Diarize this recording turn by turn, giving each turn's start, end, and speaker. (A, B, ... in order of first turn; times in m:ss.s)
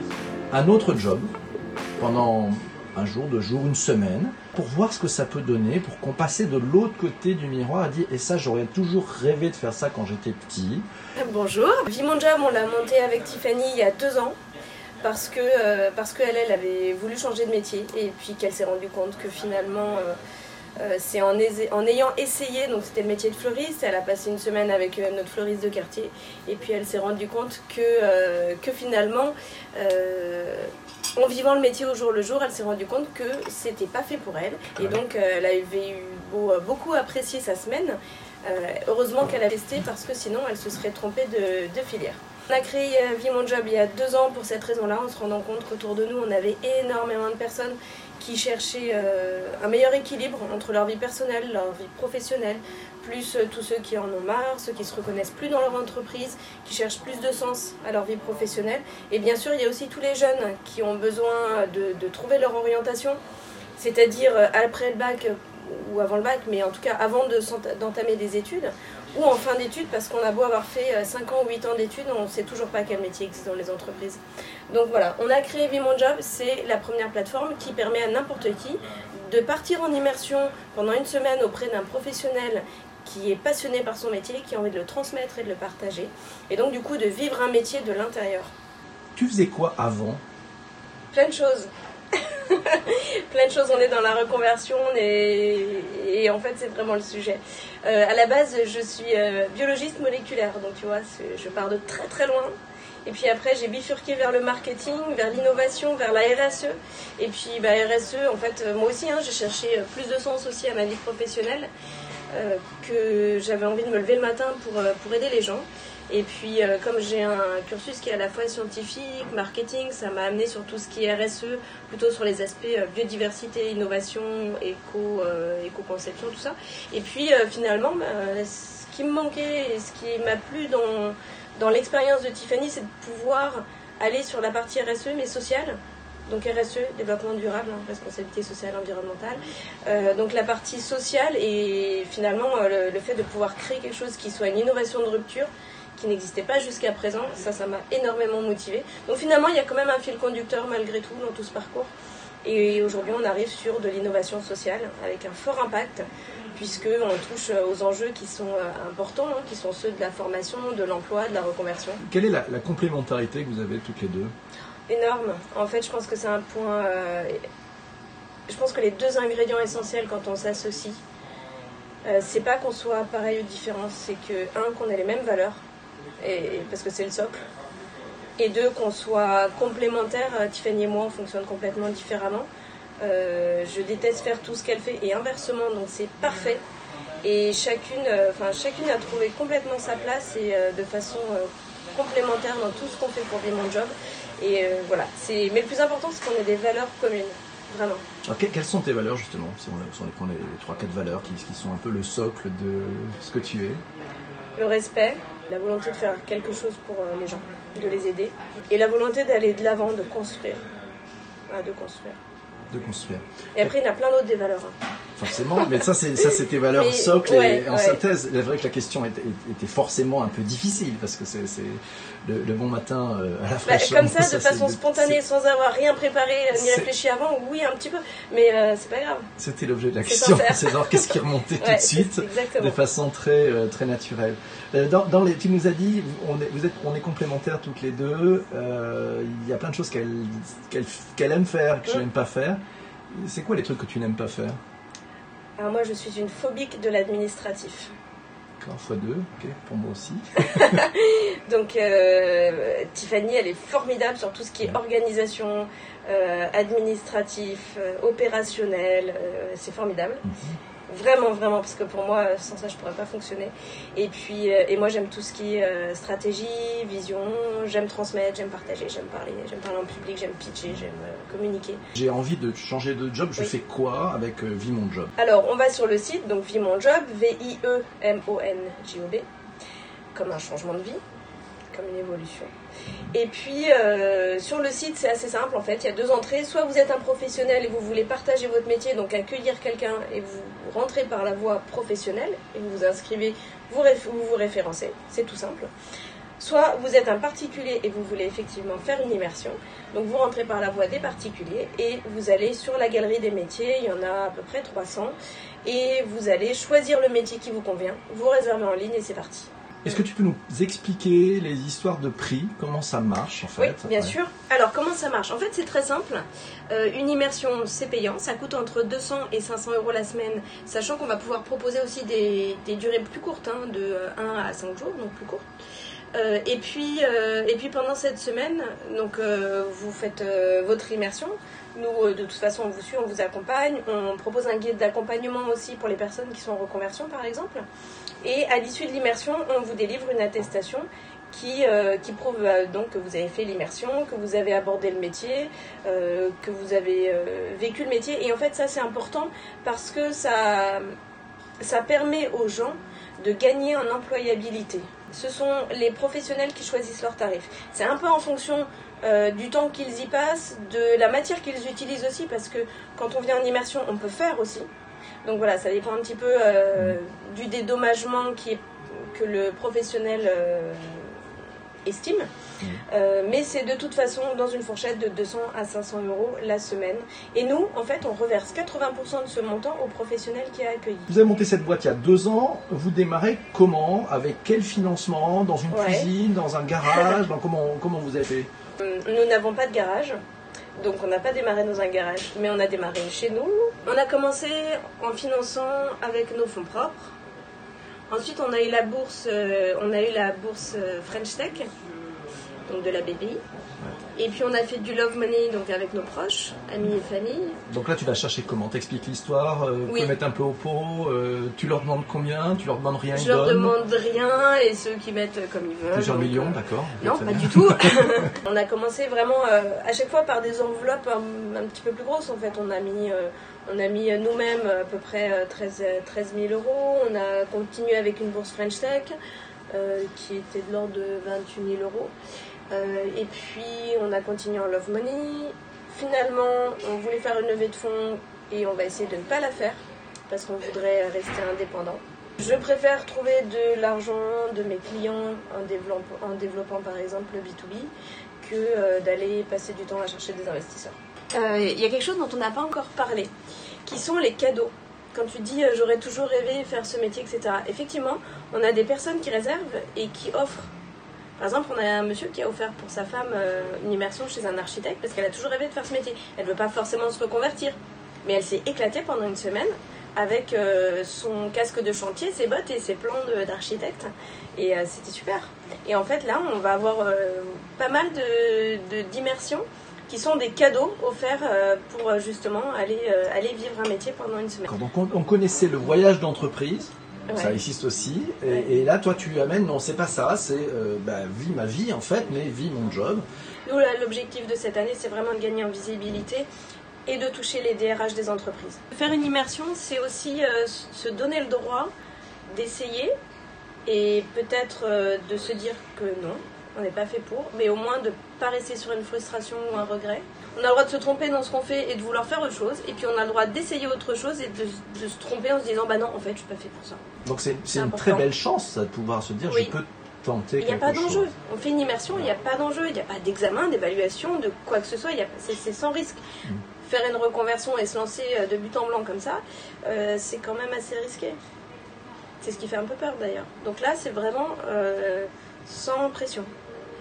0:00.5-0:01.3 A
0:02.0-0:10.8 A
0:11.2-0:14.4 B
0:15.0-0:20.2 B
0:20.8-1:03.2 B
1:03.8-1:28.5 B
1:29.2-1:30.2 A
1:31.1-1:42.5 B
1:43.0-1:51.7 B
1:52.3-2:31.9 B
2:32.4-2:36.0 B
2:36.5-2:42.0 B
2:42.0-2:44.3 A
2:44.9-2:47.4 B
2:48.5-2:51.0 B
2:52.0-2:55.6 B
2:56.2-2:57.4 B
2:58.4-3:02.5 B
3:03.0-3:06.6 B
3:07.2-3:18.0 B
3:18.2-3:23.8 A
3:24.6-3:30.6 B
3:31.5-3:32.2 B
3:32.7-3:33.7 A
3:33.6-3:34.8 B
3:35.2-3:45.2 A
3:35.6-3:38.0 B
3:43.6-3:49.3 B
3:46.5-3:46.9 A
3:49.4-4:04.6 A
3:50.0-3:52.8 B
4:05.6-4:07.9 B
4:08.6-4:10.8 A
4:10.4-4:20.2 B
4:20.2-4:20.6 A
4:20.9-4:31.8 B
4:32.0-4:35.1 A
4:35.2-4:39.2 B
4:40.1-4:41.0 B
4:41.7-4:42.5 B
4:43.1-4:55.7 B
4:56.4-5:09.5 B
5:09.8-5:14.2 A
5:13.6-5:25.4 B
5:26.1-5:37.6 B
5:38.2-5:50.9 B
5:51.6-6:04.7 B
6:05.2-6:11.2 B
6:11.9-6:12.3 B
6:12.9-6:21.1 B
6:21.1-6:28.5 A
6:25.7-6:26.1 B
6:26.9-6:27.2 B
6:28.8-6:30.2 B
6:30.8-6:37.1 B
6:38.1-6:41.7 B
6:42.7-6:43.4 B
6:44.2-6:47.6 B
6:47.7-6:53.8 A
6:49.9-6:50.1 B
6:53.1-7:09.2 B
6:55.9-6:58.3 A
7:09.7-7:12.1 B
7:12.7-7:33.3 B
7:33.9-7:40.7 B
7:41.4-8:04.7 B
8:04.7-8:13.3 A
8:07.3-8:07.6 B
8:13.7-8:16.5 B
8:17.1-8:21.9 B
8:22.5-8:23.1 B
8:23.9-8:37.0 B
8:37.2-8:41.3 A
8:37.7-8:38.2 B
8:39.5-8:39.8 B
8:40.6-8:46.2 B
8:46.8-8:51.4 B
8:52.4-8:56.5 B